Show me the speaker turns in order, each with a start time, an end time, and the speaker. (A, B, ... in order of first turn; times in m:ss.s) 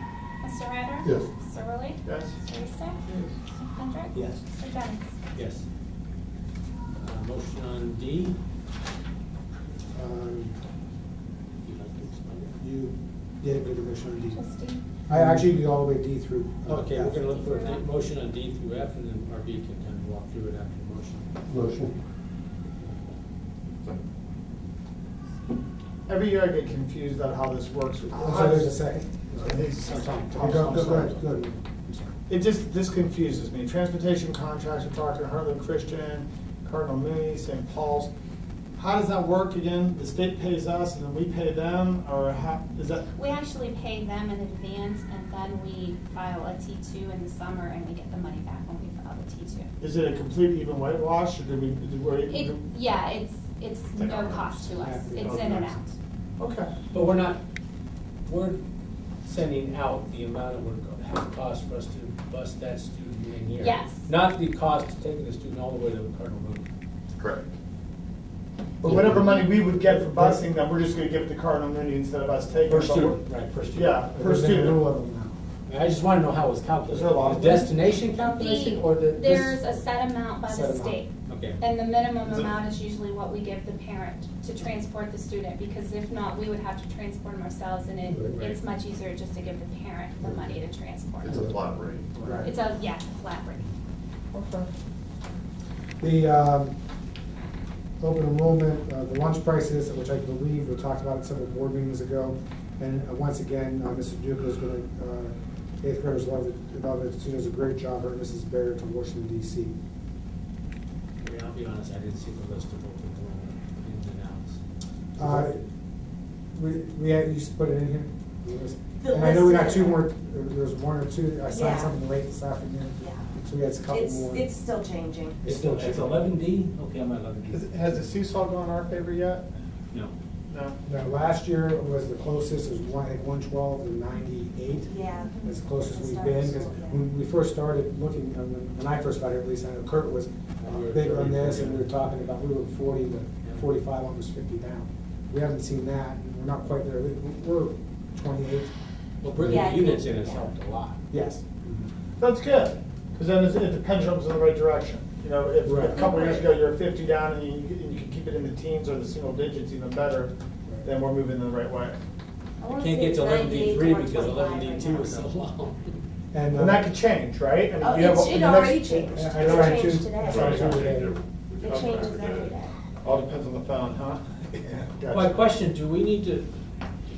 0:00.4-0:03.0 A
0:02.0-0:02.4 B
0:03.5-0:05.1 A
0:04.1-0:04.4 C
0:05.3-0:05.6 C
0:07.0-0:08.4 C
0:09.9-0:10.6 D
0:11.6-0:12.5 C
0:12.5-0:14.4 D
0:14.3-0:14.8 A
0:15.1-0:17.2 D
0:15.1-0:15.4 C
0:16.6-0:21.3 C
0:17.2-0:17.8 A
0:26.1-0:28.8 B
0:28.2-0:32.1 D
0:29.4-0:31.2 B
0:29.8-0:31.4 C
0:32.3-0:38.1 B
0:38.8-0:43.1 B
0:43.2-0:49.7 A
0:49.8-0:52.6 B
0:52.3-0:55.9 A
0:54.0-0:55.8 E
0:54.8-0:55.5 D
0:56.4-0:56.7 B
0:56.9-0:57.4 C
0:58.2-0:58.6 C
0:59.2-1:06.7 C
1:03.6-1:04.1 A
1:07.2-1:07.5 E
1:08.8-1:13.2 B
1:12.7-1:14.0 C
1:13.7-1:14.8 B
1:14.2-1:15.4 D
1:15.7-1:19.6 C
1:16.9-1:17.7 B
1:18.2-1:31.6 A
1:20.5-1:21.0 D
1:21.3-1:21.6 C
1:28.3-1:28.6 C
1:31.2-1:32.1 E
1:32.2-1:32.5 D
1:32.4-1:33.7 A
1:34.3-1:34.7 B
1:36.0-1:36.7 D
1:38.0-1:49.7 D
1:51.2-1:54.6 C
1:55.2-1:55.6 D
1:55.2-1:55.5 C
1:56.5-2:04.5 D
1:59.0-2:00.0 F
2:01.5-2:02.0 F
2:03.9-2:05.4 F
2:05.4-2:06.2 D
2:05.4-2:07.6 C
2:07.5-2:09.5 B
2:10.5-2:10.8 B
2:10.8-2:28.7 D
2:14.9-2:17.0 F
2:15.2-2:15.5 A
2:20.6-2:21.9 C
2:29.2-2:31.0 C
2:29.4-2:30.5 F
2:31.1-2:31.4 D
2:32.2-2:40.3 B
2:35.6-2:36.0 D
2:35.8-2:36.5 F
2:40.8-2:42.0 B
2:42.6-2:45.3 F
2:42.8-2:46.0 C
2:46.3-2:46.8 D
2:46.5-2:49.2 B
2:47.8-2:50.4 F
2:49.1-2:51.2 D
2:49.4-2:52.6 E
2:51.6-2:52.7 F
2:51.6-2:52.0 B
2:53.0-2:55.3 B
2:55.1-2:56.5 C